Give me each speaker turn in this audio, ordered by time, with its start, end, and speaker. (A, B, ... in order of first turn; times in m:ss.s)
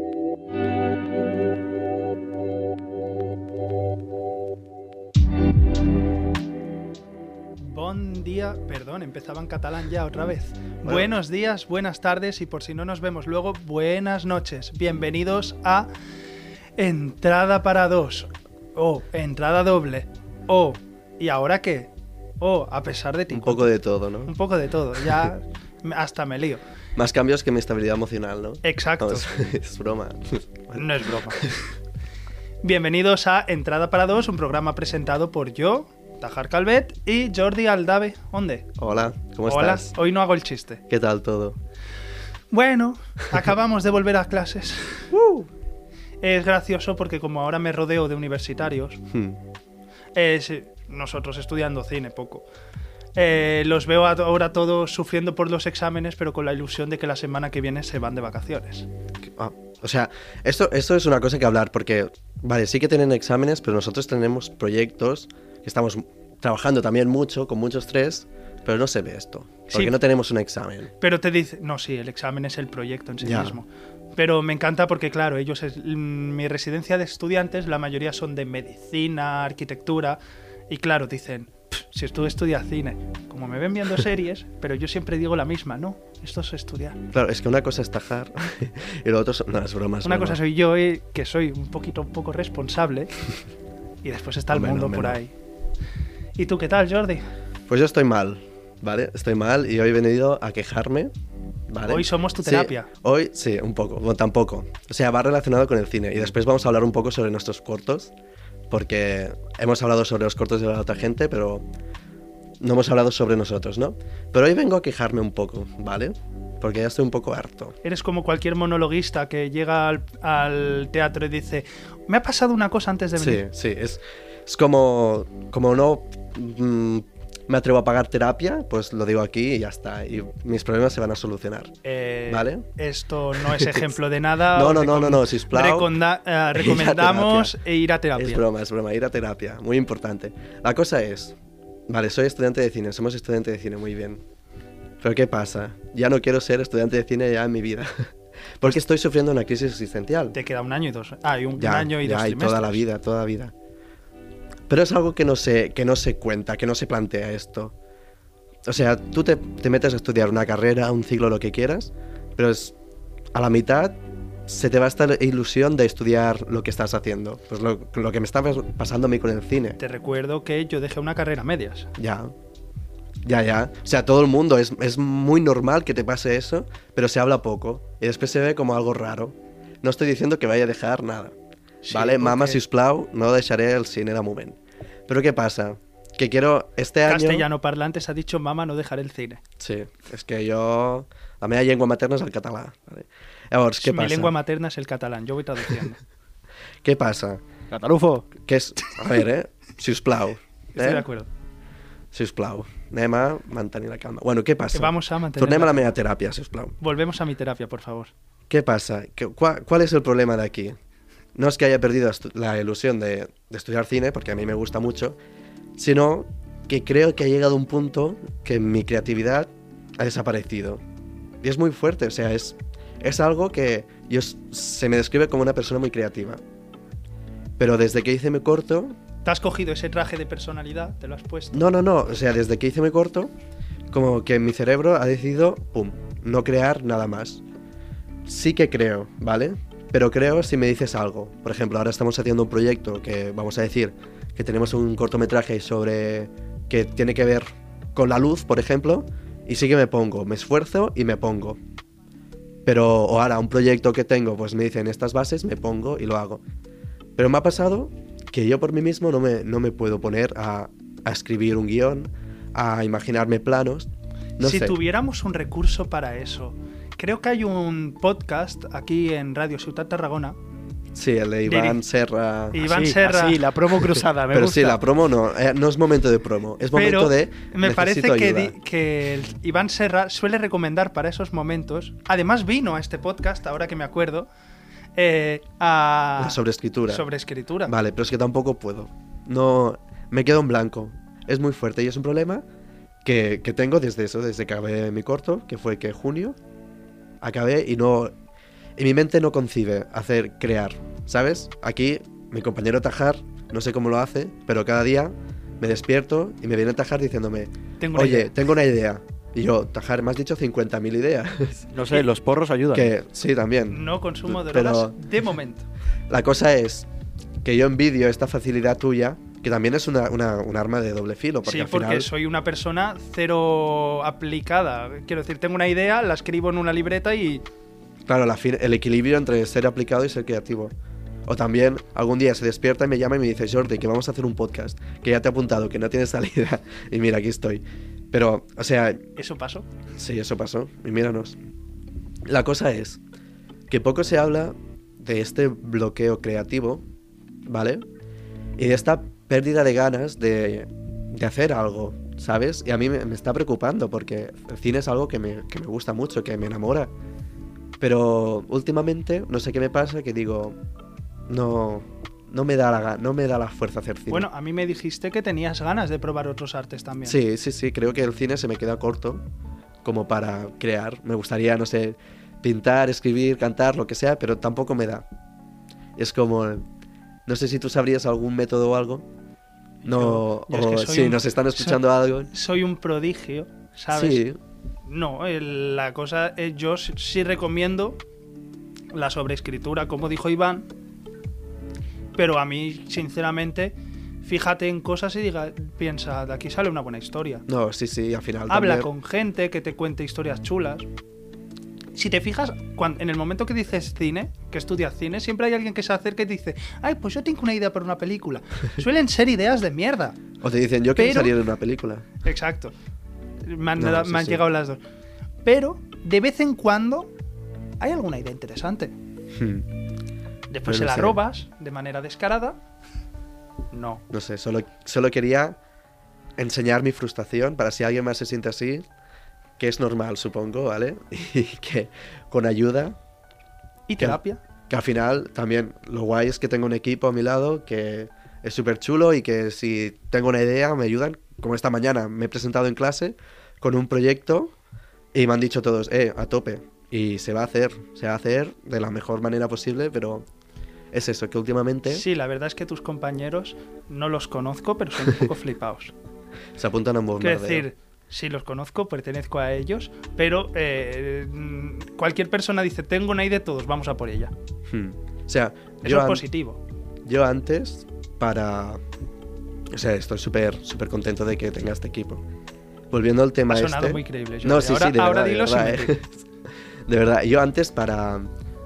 0:07.6-0:15.9 A
0:10.8-0:11.1 B
0:16.8-0:23.7 A
0:23.3-0:24.3 B
0:24.3-0:26.6 A
0:25.0-0:25.3 B
0:27.0-0:31.6 B
0:28.6-0:29.3 A
0:30.8-0:31.5 A
0:32.6-0:38.7 A
0:38.8-0:39.9 B
0:39.5-0:40.8 A
0:40.9-0:41.6 B
0:42.5-0:45.1 A
0:45.1-0:45.5 B
0:46.2-0:49.0 A
0:49.1-0:49.4 B
0:50.2-0:52.5 A
0:53.2-0:58.9 A
0:59.2-1:10.9 B
1:09.7-1:10.0 A
1:11.0-1:27.0 A
1:13.2-1:13.6 B
1:27.1-1:30.4 B
1:30.0-1:33.1 A
1:34.0-1:35.3 A
1:34.5-1:35.2 B
1:36.4-1:37.3 A
1:37.7-1:41.1 B
1:41.7-1:48.1 B
1:41.9-1:42.9 A
1:48.7-1:51.7 B
1:52.6-1:57.8 B
1:57.8-2:03.4 A
2:03.2-2:12.6 B
2:11.8-2:18.4 A
2:13.4-2:13.8 B
2:14.5-2:16.0 B
2:16.5-2:17.6 B
2:18.2-2:21.4 B
2:21.9-2:24.2 B
2:25.0-2:30.4 B
2:30.3-2:32.8 A
2:31.6-2:33.5 B
2:34.7-2:37.8 B
2:38.6-2:42.8 B
2:43.3-2:49.8 B
2:49.8-2:51.9 A
2:52.0-2:52.3 B
2:53.2-3:01.4 B
3:01.8-3:02.6 A
3:01.9-3:07.5 B
3:07.1-3:09.4 A
3:09.6-3:14.3 B
3:13.8-3:16.0 A
3:16.8-3:17.4 B
3:17.7-3:18.3 C
3:18.3-3:21.1 B
3:20.7-3:21.3 A
3:22.1-3:26.8 B
3:24.7-3:25.9 A
3:26.8-3:28.1 A
3:28.5-3:30.8 B
3:31.4-3:35.2 B
3:35.8-3:40.8 B
3:41.4-3:46.4 B
3:47.6-3:49.0 B
3:49.2-3:51.7 A
3:51.5-3:53.3 B
3:53.9-3:57.4 B
3:58.3-4:11.6 B
4:12.6-4:16.4 B
4:17.2-4:24.8 B
4:24.4-4:30.4 A
4:30.9-4:32.7 B
4:31.4-4:31.8 A
4:32.5-4:33.5 A
4:32.6-4:34.8 C
4:33.8-4:38.6 B
4:36.7-4:44.3 A
4:45.0-4:47.8 A
4:46.2-4:47.1 B
4:47.7-4:52.4 B
4:53.0-4:56.4 B
4:57.2-4:58.1 B
4:58.8-5:11.8 B
5:07.8-5:08.3 A
5:11.7-5:12.9 C
5:12.7-5:15.0 B
5:13.7-5:15.7 A
5:16.1-5:16.9 B
5:17.4-5:22.1 B
5:21.4-5:27.4 A
5:28.1-5:30.8 B
5:31.3-5:39.0 B
5:39.2-5:39.7 A
5:39.9-5:41.4 B
5:42.3-5:43.0 B
5:43.7-5:46.8 B
5:47.5-5:47.9 B
5:48.6-5:56.9 B
5:57.8-6:00.6 B
6:01.3-6:04.3 B
6:04.1-6:07.2 A
6:07.0-6:09.2 B
6:09.8-6:15.1 B
6:16.0-6:16.7 B
6:17.3-6:19.1 B
6:19.8-6:24.2 A
6:19.8-6:22.3 B
6:23.9-6:24.4 B
6:24.8-6:28.0 A
6:28.9-6:30.7 A
6:32.2-6:37.4 A
6:37.5-6:38.9 B
6:38.5-6:40.9 A
6:41.9-6:50.2 A
6:50.4-6:52.1 B
6:51.0-6:51.4 A
6:52.2-6:52.7 A
6:53.4-6:54.8 A
6:53.8-6:54.4 B
6:55.4-6:57.1 A
6:57.8-6:58.9 A
6:59.3-6:59.7 B
7:00.5-7:02.6 A
7:00.7-7:01.2 B
7:03.7-7:04.0 A
7:04.1-7:05.6 B
7:06.4-7:08.9 B
7:09.6-7:13.0 B
7:13.9-7:14.4 A
7:14.0-7:24.5 B
7:25.1-7:30.3 B
7:30.9-7:32.0 B
7:31.9-7:35.9 A
7:36.6-7:37.7 B
7:37.2-7:44.3 A
7:44.7-7:46.2 B
7:45.8-7:46.6 A
7:47.1-7:48.8 B
7:49.7-7:52.2 B
7:52.9-7:56.2 B
7:53.5-7:56.0 A
7:56.9-7:58.3 B